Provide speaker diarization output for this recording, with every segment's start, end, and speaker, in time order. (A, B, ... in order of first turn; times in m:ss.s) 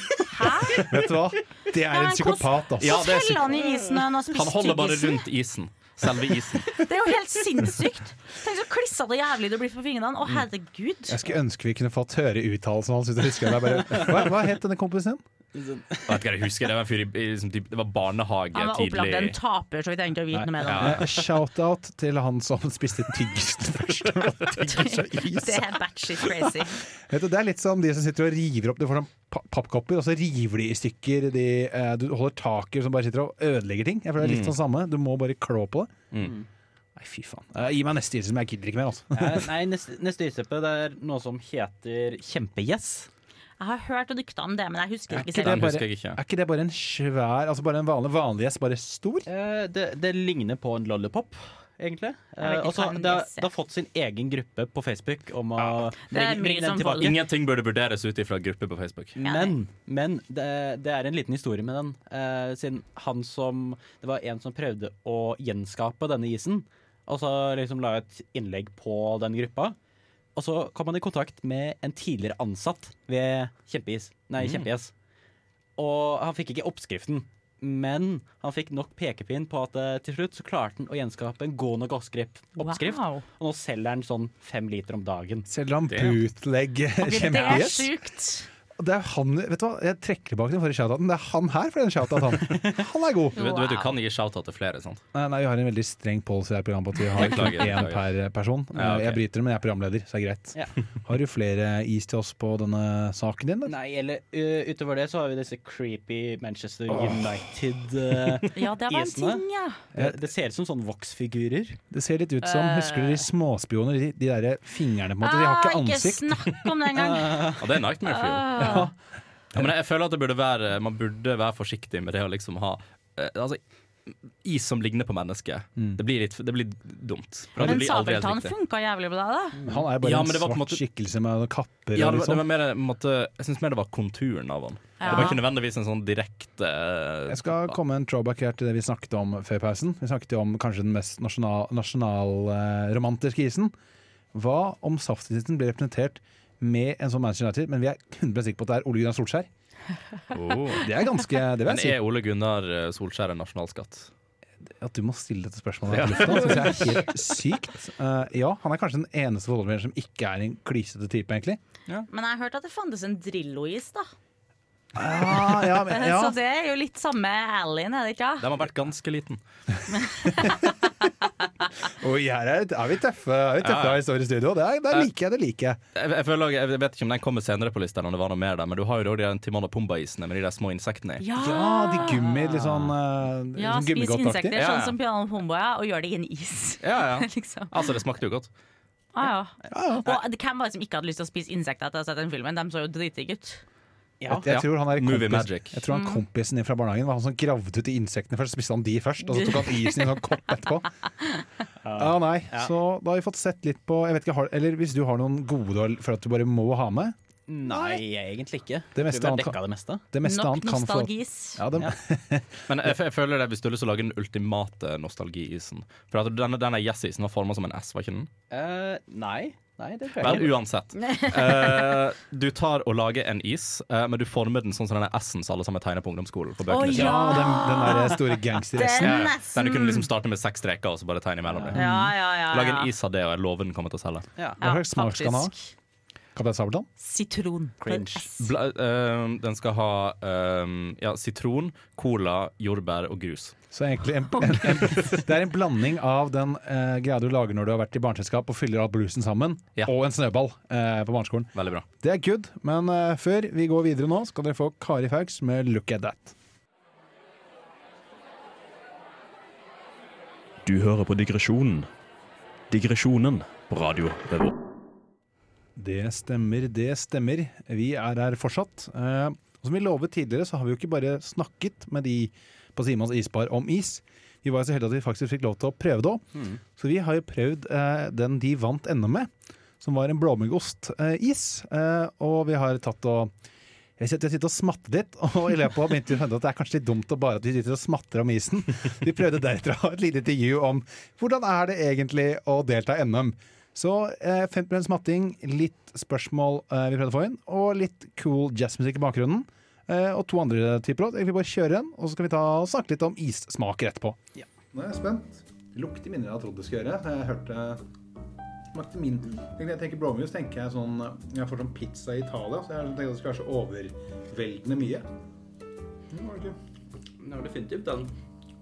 0:00.3-0:00.8 A
0:00.7-0:03.2 B
0:01.9-0:05.2 A
0:02.8-0:03.5 C
0:04.3-0:06.8 C
0:06.7-0:11.2 A
0:11.1-0:15.2 B
0:15.5-0:16.3 D
0:16.1-0:19.4 C
0:18.5-0:21.1 A
0:20.6-0:21.1 C
0:20.8-0:36.1 B
0:24.7-0:26.8 A
0:34.2-0:34.5 C
0:36.2-0:36.5 D
0:37.0-0:39.5 B
0:39.1-0:43.1 D
0:43.6-0:45.6 A
0:45.1-0:49.3 B
0:45.3-0:46.2 C
0:49.3-0:57.2 D
0:52.4-0:53.5 A
0:56.0-0:57.1 A
0:57.0-0:59.2 C
0:59.2-0:59.5 A
0:59.2-1:09.8 D
1:10.3-1:14.9 D
1:14.4-1:14.7 C
1:15.8-1:25.5 D
1:22.6-1:23.2 A
1:25.5-1:27.9 B
1:25.9-1:26.2 C
1:27.0-1:28.5 A
1:28.8-1:33.4 B
1:33.4-1:33.9 A
1:33.4-1:35.0 C
1:35.1-1:43.7 B
1:37.1-1:38.1 C
1:38.7-1:39.2 C
1:43.6-1:51.8 D
1:46.9-1:47.4 B
1:48.5-1:49.8 A
1:51.9-1:56.7 B
1:52.4-1:53.2 A
1:55.2-1:57.5 A
1:56.9-1:57.7 D
1:57.6-1:58.6 C
1:58.1-1:58.9 A
1:58.6-1:58.9 B
1:59.5-2:08.5 C
2:07.6-2:07.8 B
2:07.6-2:09.6 A
2:09.5-2:09.8 D
2:09.6-2:12.4 B
2:10.0-2:10.8 C
2:11.9-2:17.7 C
2:15.0-2:15.4 A
2:17.3-2:23.7 B
2:24.3-2:29.5 B
2:30.3-2:30.9 C
2:30.7-2:32.0 B
2:31.6-2:34.1 C
2:34.6-2:41.6 B
2:35.9-2:37.0 C
2:42.1-2:44.1 A
2:44.9-2:46.4 B
2:45.2-2:48.6 A
2:48.4-2:49.4 C
2:49.9-2:50.7 A
2:50.3-2:50.9 B
2:51.8-2:55.8 B
2:53.6-2:54.0 C
2:55.9-3:01.2 C
3:01.2-3:02.7 A
3:01.3-3:04.6 B
3:03.5-3:07.7 A
3:04.6-3:04.9 C
3:06.8-3:08.5 C
3:09.1-3:13.6 A
3:09.7-3:10.1 B
3:14.2-3:14.4 D
3:14.3-3:20.9 B
3:14.4-3:15.8 C
3:15.9-3:16.2 A
3:19.3-3:19.9 A
3:21.8-3:22.7 D
3:22.0-3:27.2 B
3:27.5-3:30.0 D
3:27.7-3:28.0 B
3:28.9-3:32.9 B
3:30.2-3:31.6 A
3:32.7-3:38.3 C
3:38.5-3:40.5 D
3:40.2-3:47.5 C
3:40.9-3:41.7 A
3:46.7-3:50.1 A
3:46.9-3:49.3 B
3:48.9-3:54.3 C
3:51.5-3:51.8 D
3:51.7-3:52.9 A
3:51.8-3:52.1 B
3:54.6-3:55.5 B
3:54.6-3:55.7 A
3:56.3-3:56.9 B
3:57.0-3:58.5 A
3:57.8-3:58.3 D
3:58.4-4:03.6 C
4:03.7-4:16.3 B
4:11.5-4:11.8 C
4:20.6-4:21.9 E
4:22.7-4:24.5 E
4:25.8-4:36.2 B
4:36.3-4:36.6 D
4:36.7-4:43.3 B
4:44.0-5:04.2 B
5:04.7-5:07.8 B
5:08.7-5:15.1 B
5:16.1-5:16.6 B
5:17.2-5:18.1 D